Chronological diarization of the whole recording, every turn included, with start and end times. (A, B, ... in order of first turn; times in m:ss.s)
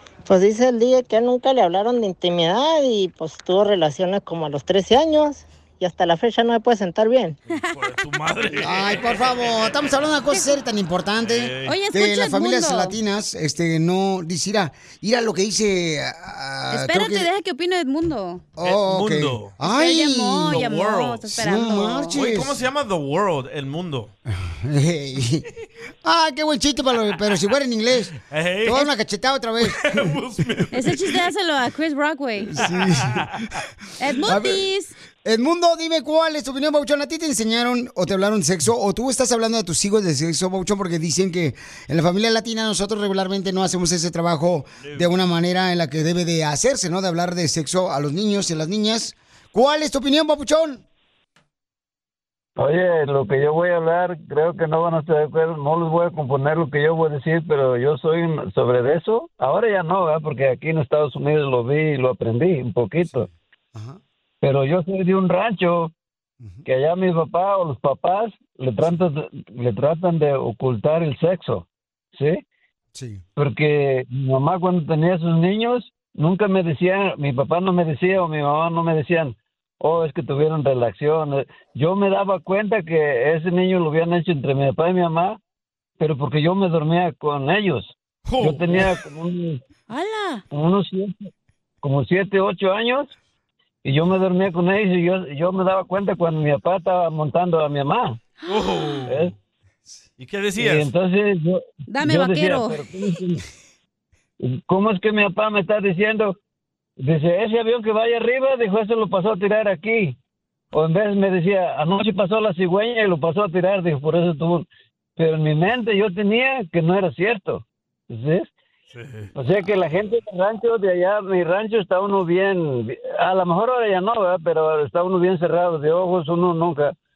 0:00.2-0:07.3 A
0:07.5-0:09.7 B
0:08.6-0:17.3 C
0:11.2-0:11.8 B
0:11.6-0:13.0 D
0:16.7-0:18.4 D
0:18.6-0:20.7 C
0:18.6-0:19.5 B
0:19.6-0:22.2 D
0:20.5-0:21.3 B
0:21.3-0:22.5 C
0:22.1-0:24.1 B
0:24.3-0:25.5 C
0:26.0-0:30.1 C
0:28.3-0:28.9 B
0:29.6-0:31.2 B
0:30.7-0:32.6 D
0:32.4-0:33.3 C
0:32.6-0:33.4 B
0:34.0-0:34.9 D
0:34.2-0:34.6 C
0:35.2-0:50.8 C
0:44.8-0:45.1 B
0:52.6-1:03.3 E
1:03.0-1:04.0 C
1:04.4-1:05.9 E
1:06.6-1:12.4 E
1:12.9-1:13.2 C
1:13.4-1:25.4 E
1:26.0-1:29.6 E
1:28.2-1:28.9 B
1:29.9-1:30.4 D
1:30.5-1:31.3 E
1:31.8-1:33.1 E
1:33.8-1:38.2 E
1:38.5-1:39.3 B
1:39.1-1:39.3 E
1:40.2-1:40.9 B
1:40.6-1:43.4 E
1:41.9-1:42.8 D
1:44.4-1:46.4 E
1:47.0-1:50.2 E
1:50.7-1:58.5 E
1:58.9-1:59.3 B
1:59.3-2:06.9 E